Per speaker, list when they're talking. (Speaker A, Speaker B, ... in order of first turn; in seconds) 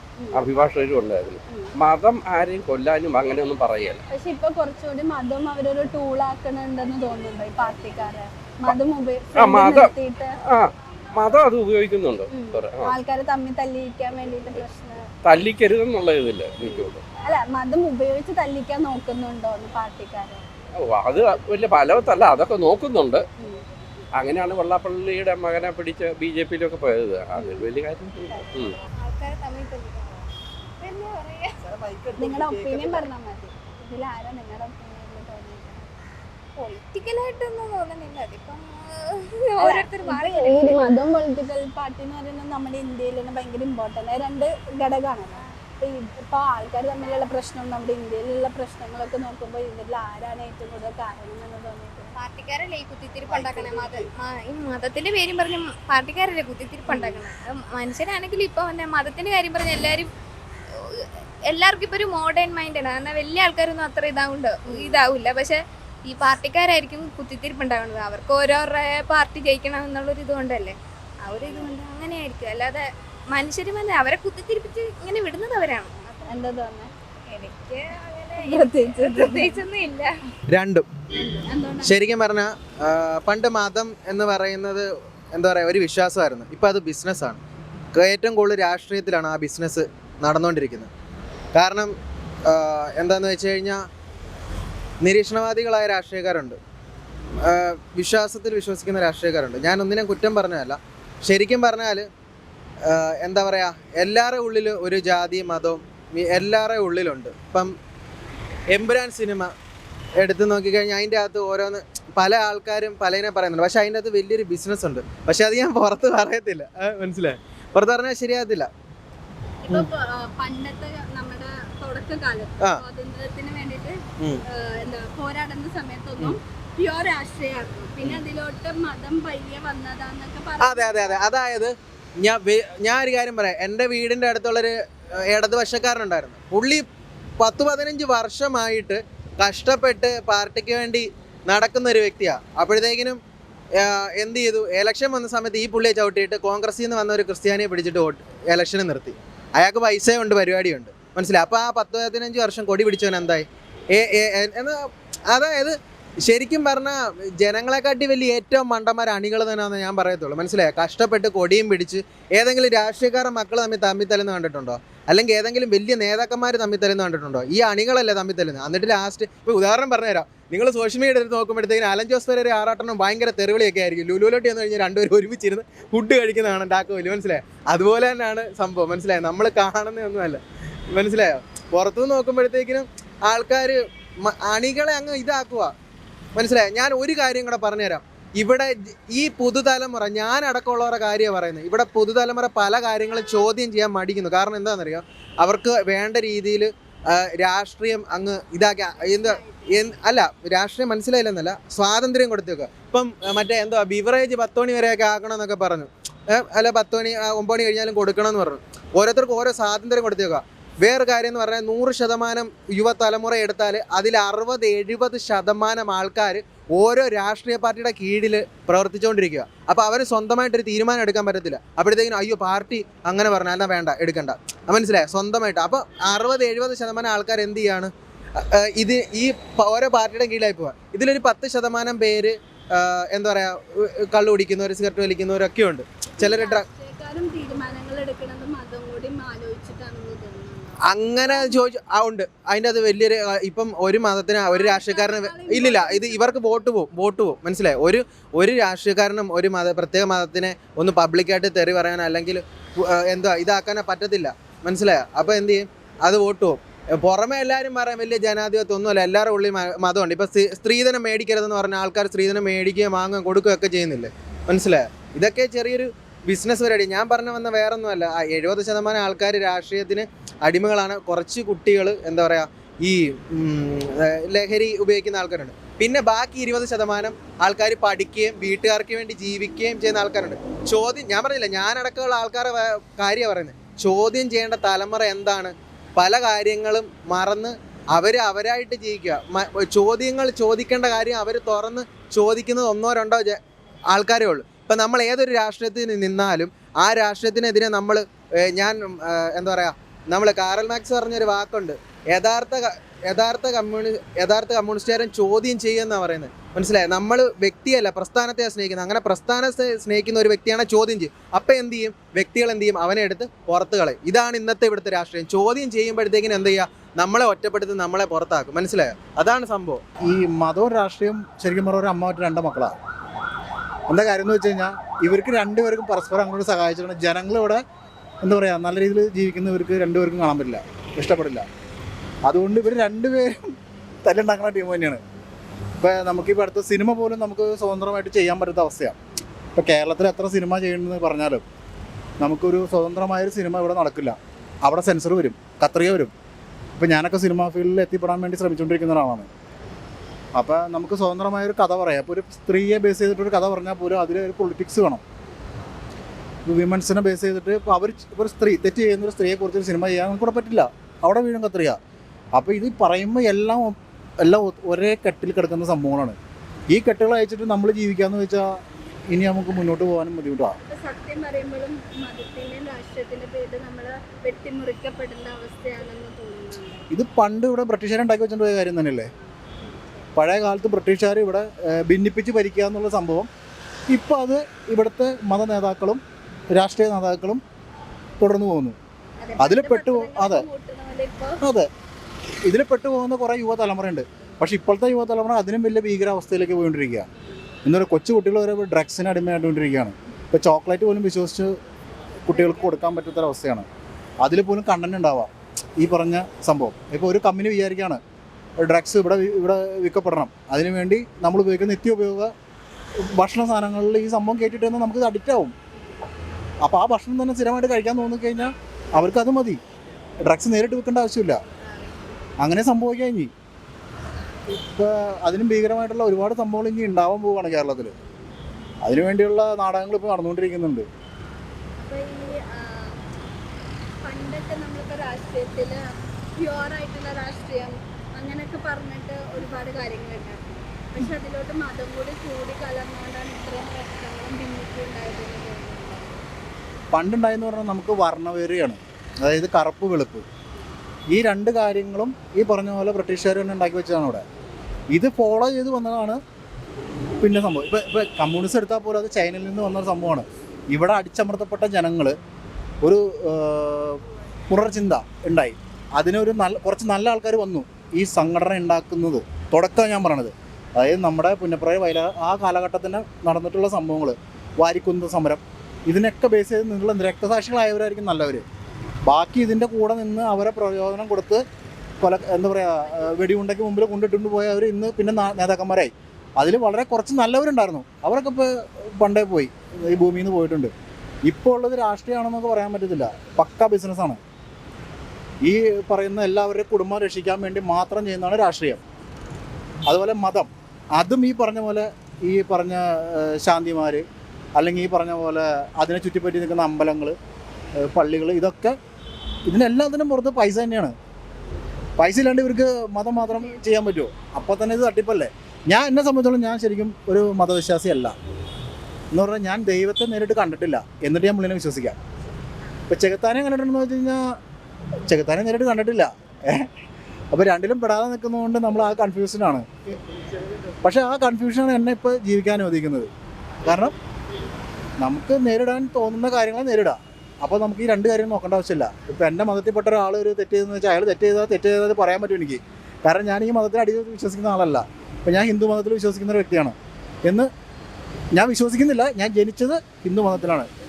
Speaker A: 0.2-0.5, 1.5-1.7, 4.1-10.3, 12.3-15.1, 16.6-20.4, 27.4-27.7, 32.2-35.9, 39.6-52.1, 56.9-57.2, 64.7-65.0, 76.3-76.9, 78.4-79.6, 81.1-82.0, 119.7-131.2, 199.0-199.7, 236.2-241.7, 244.5-246.7, 370.6-376.9, 389.2-391.4, 402.3-402.8, 431.8-433.0, 434.0-435.8, 436.4-446.2, 513.2-514.4
Speaker B: 0.3-4.0, 9.3-9.9, 10.4-12.9, 15.2-17.0, 20.8-23.2, 24.2-28.8
Speaker C: 29.0-30.3, 30.8-31.6, 36.6-40.9, 52.2-60.1, 60.9-76.4, 77.3-80.2
Speaker D: 31.9-32.8, 80.5-80.9, 81.8-87.4, 87.9-90.9, 91.5-91.9, 92.5-93.8, 95.0-96.6, 97.4-102.1, 102.9-107.8, 108.7-109.5, 110.2-118.7, 130.6-136.9, 137.4-143.2, 143.8-154.8, 155.3-185.7, 186.3-227.9, 228.5-236.7, 240.9-293.4, 293.9-319.8
Speaker E: 320.0-322.7, 323.9-327.6, 328.2-331.5, 332.3-335.0, 335.8-339.0, 339.6-341.4, 342.2-346.1, 346.8-349.3, 350.4-355.0, 356.5-361.8, 362.4-366.2, 366.7-368.6, 369.1-370.6, 376.9-379.1, 380.1-383.3, 383.9-386.0, 386.5-387.4, 388.2-388.8, 389.4-390.5, 391.4-391.7, 392.4-397.1, 397.6-401.5, 402.3-403.7, 404.2-408.0, 408.6-412.3, 413.1-415.5, 416.6-419.6, 420.2-421.4, 422.4-423.3, 424.5-427.9, 428.8-430.9, 446.9-450.2, 451.1-454.2, 454.9-456.2, 457.2-462.2, 462.8-478.4, 479.1-481.4, 482.0-490.7, 491.2-494.2, 495.4-498.8, 499.9-504.0, 504.6-507.1, 507.8-508.8, 509.5-510.9, 512.0-518.1, 519.1-522.0, 522.9-524.4, 525.1-526.7, 527.3-530.0, 530.8-533.1, 533.6-533.9, 535.0-547.5, 548.3-550.7